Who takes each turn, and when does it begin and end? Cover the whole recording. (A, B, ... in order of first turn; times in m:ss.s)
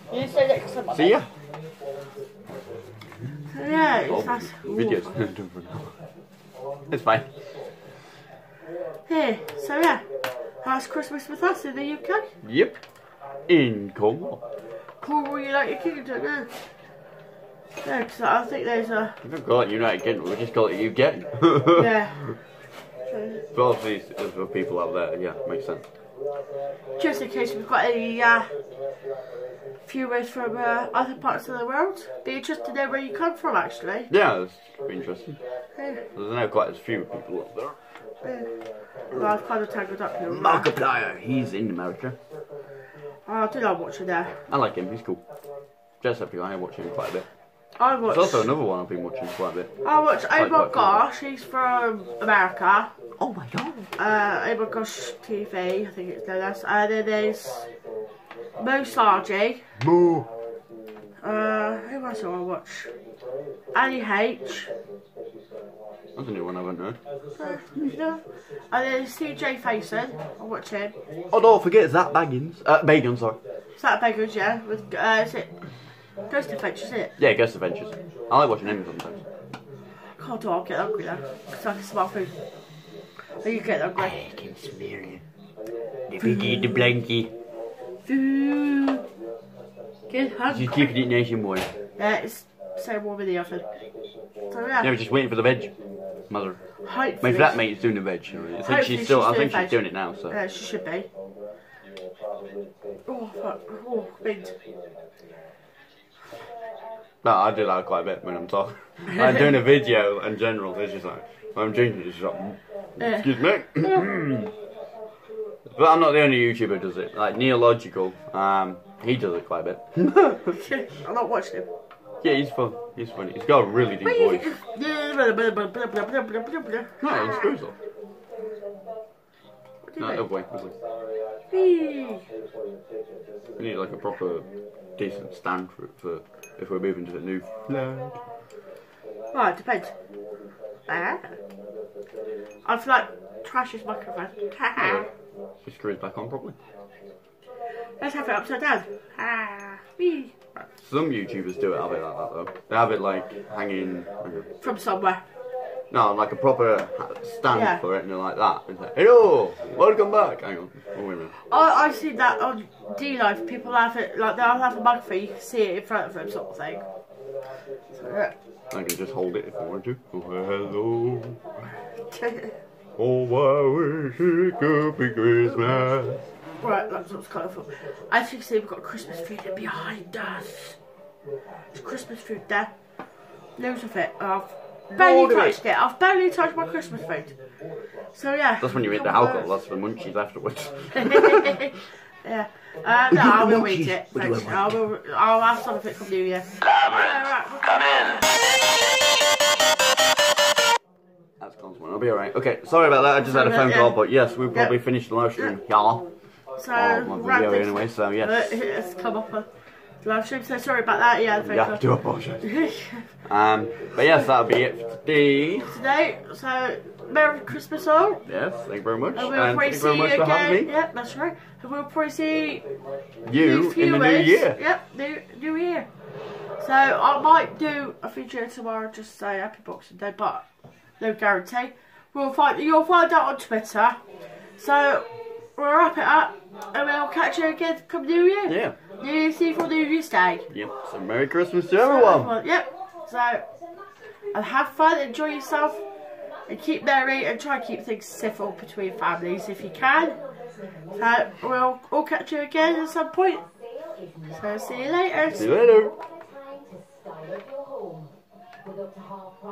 0:00.1-0:01.1 A
0:00.9-0:01.3 B
0:03.5-0:05.1 A
0:04.1-0:05.9 B
0:06.9-0:07.3 B
0:09.1-0:10.0 A
0:10.6-0:12.3 A
0:12.4-0:12.8 B
0:13.5-0:14.4 B
0:15.0-0:16.5 A
0:17.8-0:19.2 A
0:19.2-0:22.3 B
0:21.7-0:22.2 A
0:23.1-0:23.4 A
0:23.5-0:25.8 B
0:27.0-0:28.5 A
0:29.8-0:34.1 A
0:34.1-0:35.4 B
0:35.8-0:36.0 A
0:36.1-0:37.8 B
0:38.2-0:38.5 A
0:39.1-0:40.7 A
0:40.3-0:42.2 B
0:43.3-0:44.4 A
0:44.5-0:45.2 B
0:46.0-0:47.3 B
0:47.8-0:48.5 A
0:48.1-0:49.7 B
0:49.8-0:52.9 A
0:50.3-0:51.0 B
0:53.2-0:53.9 B
0:54.0-0:57.7 A
0:58.6-0:59.6 A
0:59.8-1:00.3 B
1:01.2-1:02.9 A
1:03.7-1:04.7 A
1:06.2-1:07.0 B
1:07.4-1:10.9 A
1:11.3-1:13.4 B
1:13.8-1:15.5 A
1:16.3-1:17.1 A
1:17.2-1:19.2 B
1:20.2-1:22.3 A
1:23.4-1:24.2 A
1:24.0-1:25.2 B
1:26.1-1:27.3 B
1:26.2-1:26.7 A
1:28.0-1:29.0 A
1:30.1-1:30.9 A
1:30.5-1:31.7 B
1:32.0-1:33.6 A
1:34.5-1:34.9 A
1:34.8-1:35.7 B
1:36.3-1:36.6 B
1:36.9-1:37.6 A
1:37.2-1:40.4 B
1:38.6-1:39.8 A
1:40.3-1:41.1 A
1:43.1-1:44.5 A
1:47.2-1:54.5 B
1:53.0-1:53.3 A
1:53.8-1:54.1 A
1:55.7-2:00.6 B
2:00.5-2:01.7 A
2:02.2-2:04.5 B
2:04.0-2:07.5 A
2:07.0-2:07.7 B
2:09.9-2:10.2 A
2:10.0-2:10.7 B
2:11.5-2:12.2 A
2:13.6-2:18.2 B
2:19.3-2:19.9 A
2:20.9-2:21.3 A
2:22.6-2:25.1 A
2:24.8-2:25.0 B
2:25.6-2:26.6 B
2:28.0-2:30.7 A
2:30.8-2:34.5 B
2:34.6-2:35.2 A
2:35.9-2:41.3 B
2:37.5-2:37.8 A
2:41.5-2:46.8 A
2:47.9-2:48.3 A
2:48.7-2:51.4 B
2:52.1-2:52.5 A
2:53.0-2:56.2 B
2:56.6-3:00.8 A
3:01.7-3:02.7 A
3:03.6-3:07.3 A
3:04.9-3:05.6 B
3:08.1-3:09.5 A
3:08.6-3:11.6 B
3:10.9-3:18.2 A
3:13.1-3:14.7 B
3:21.4-3:26.0 B
3:23.2-3:23.9 A
3:26.6-3:29.5 A
3:26.7-3:28.5 B
3:30.0-3:31.8 A
3:31.4-3:32.4 B
3:32.4-3:33.1 A
3:33.3-3:35.7 B
3:35.6-3:38.2 A
3:38.3-3:40.7 B
3:39.1-3:42.6 A
3:43.2-3:44.6 B
3:43.3-3:45.9 A
3:46.6-3:50.4 A
3:51.0-3:54.0 A
3:54.6-4:00.4 A
3:58.5-3:58.8 B
4:00.5-4:02.3 B
4:01.8-4:03.5 A
4:04.3-4:05.8 A
4:06.5-4:10.2 A
4:11.0-4:13.4 A
4:14.3-4:15.5 A
4:15.4-4:15.9 B